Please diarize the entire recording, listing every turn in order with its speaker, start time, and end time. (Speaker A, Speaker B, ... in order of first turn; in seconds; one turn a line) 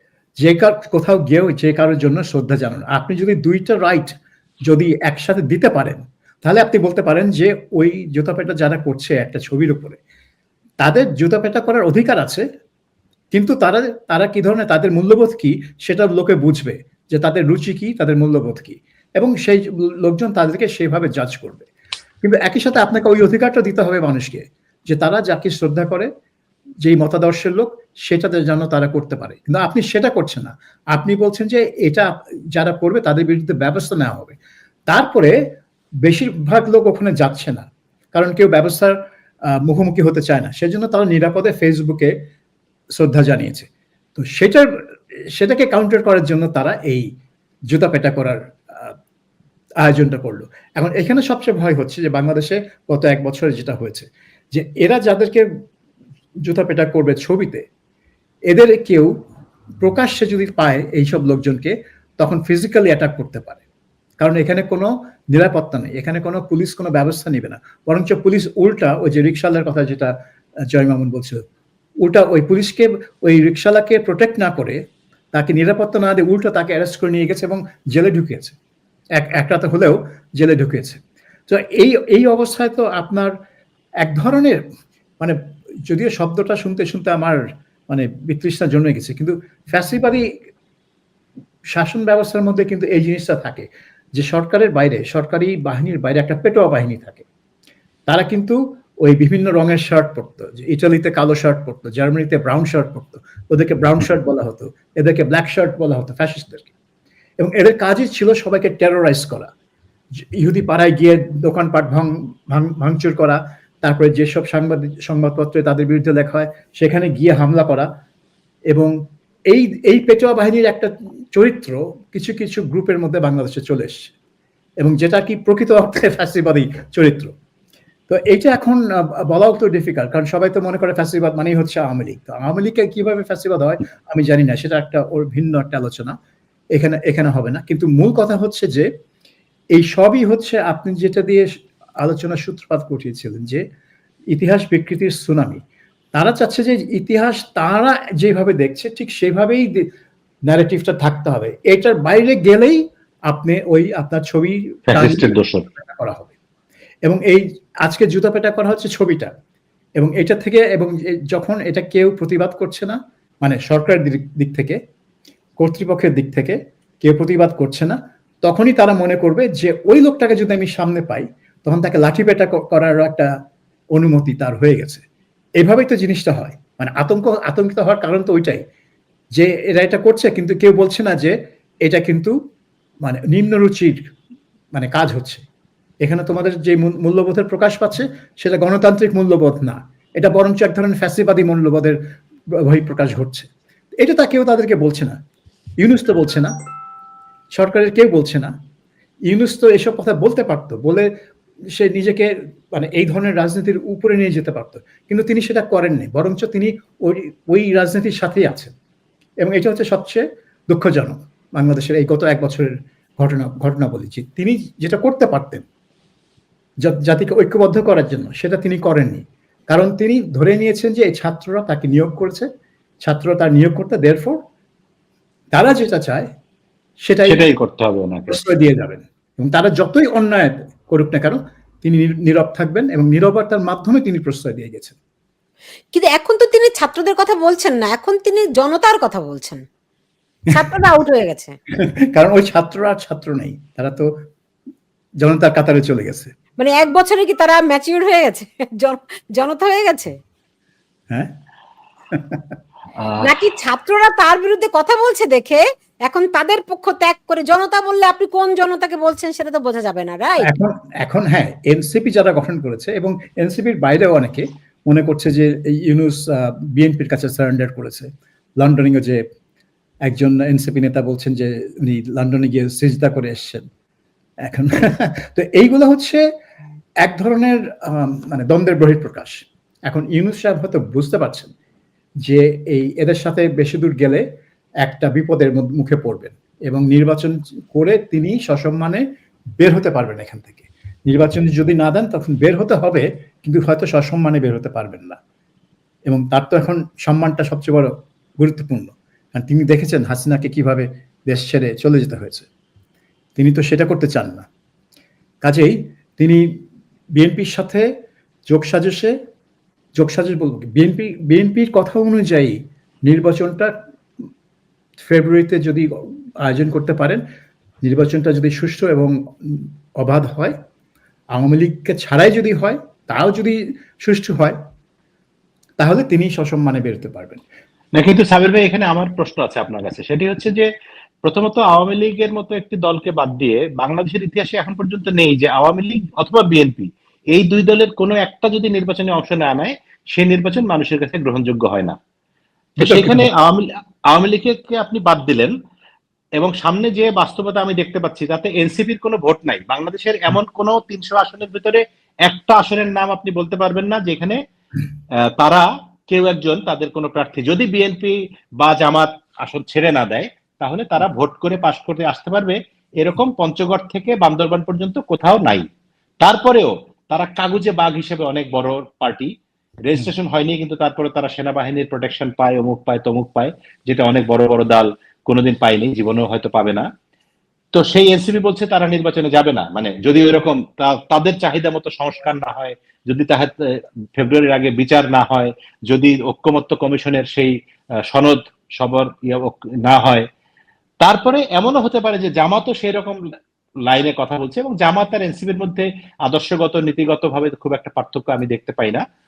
Speaker A: 0.4-4.1
Speaker A: 4.7-10.0
Speaker A: 10.8-12.4
Speaker A: 13.3-21.7
Speaker A: 22.2-26.1
Speaker A: 26.8-34.4
Speaker A: 34.9-35.4
Speaker A: 36.0-39.0
Speaker A: 39.6-42.1
Speaker A: 43.0-44.8
Speaker A: 45.3-47.1
Speaker A: 47.7-49.0
Speaker A: 49.8-55.5
Speaker A: 56.4-57.7
Speaker A: 58.5-59.1
Speaker A: 59.8-63.6
Speaker A: 64.2-70.1
Speaker A: 70.7-71.4
Speaker A: 72.0-74.8
Speaker A: 75.3-78.6
Speaker A: 79.2-83.3
Speaker A: 84.0-84.6
Speaker A: 85.2-90.3
Speaker A: 91.7-97.3
Speaker A: 98.1-106.7
Speaker A: 107.4-109.5
Speaker A: 110.2-117.9
Speaker A: 119.5-124.1
Speaker A: 124.8-127.3
Speaker A: 128.1-136.2
Speaker A: 136.7-138.9
Speaker A: 139.7-143.6
Speaker A: 144.3-145.6
Speaker A: 146.2-149.9
Speaker A: 150.5-156.3
Speaker B: 154.9-155.7
Speaker A: 157.1-159.3
Speaker A: 160.0-164.8
Speaker A: 165.6-173.3
Speaker A: 173.9-175.0
Speaker A: 175.6-178.6
Speaker A: 179.3-182.4
Speaker A: 183.0-184.0
Speaker A: 184.7-185.4
Speaker A: 186.0-192.0
Speaker A: 192.6-195.2
Speaker A: 195.8-196.5
Speaker A: 197.5-198.5
Speaker A: 199.3-201.1
Speaker A: 201.7-208.7
Speaker A: 209.4-215.7
Speaker A: 216.8-222.5
Speaker A: 223.0-224.4
Speaker A: 225.5-226.3
Speaker A: 227.0-227.4
Speaker B: 227.3-228.4
Speaker A: 228.3-235.0
Speaker C: 235.9-239.6
Speaker C: 240.5-241.6
Speaker A: 242.1-244.1
Speaker A: 245.2-246.3
Speaker C: 246.6-250.1
Speaker A: 252.1-252.4
Speaker B: 253.0-253.3
Speaker C: 253.2-260.5
Speaker A: 260.4-268.1
Speaker A: 268.6-269.2
Speaker A: 270.1-273.7
Speaker A: 274.4-276.3
Speaker A: 277.0-281.5
Speaker A: 282.2-284.2
Speaker A: 284.8-289.0
Speaker A: 289.6-295.2
Speaker A: 296.1-302.5
Speaker A: 303.4-304.5
Speaker A: 305.4-306.6
Speaker A: 307.1-307.9
Speaker A: 308.5-309.2
Speaker A: 310.0-313.8
Speaker A: 315.0-315.9
Speaker A: 316.4-317.2
Speaker A: 317.8-320.6
Speaker A: 321.3-324.6
Speaker A: 325.8-327.4
Speaker B: 327.9-330.7
Speaker B: 331.2-342.0
Speaker A: 342.8-343.3
Speaker B: 342.8-345.5
Speaker B: 346.4-354.4
Speaker B: 355.4-365.6
Speaker B: 366.2-369.3
Speaker B: 369.9-376.9
Speaker B: 377.7-387.5
Speaker B: 388.1-390.2
Speaker B: 391.0-393.2
Speaker B: 393.9-399.0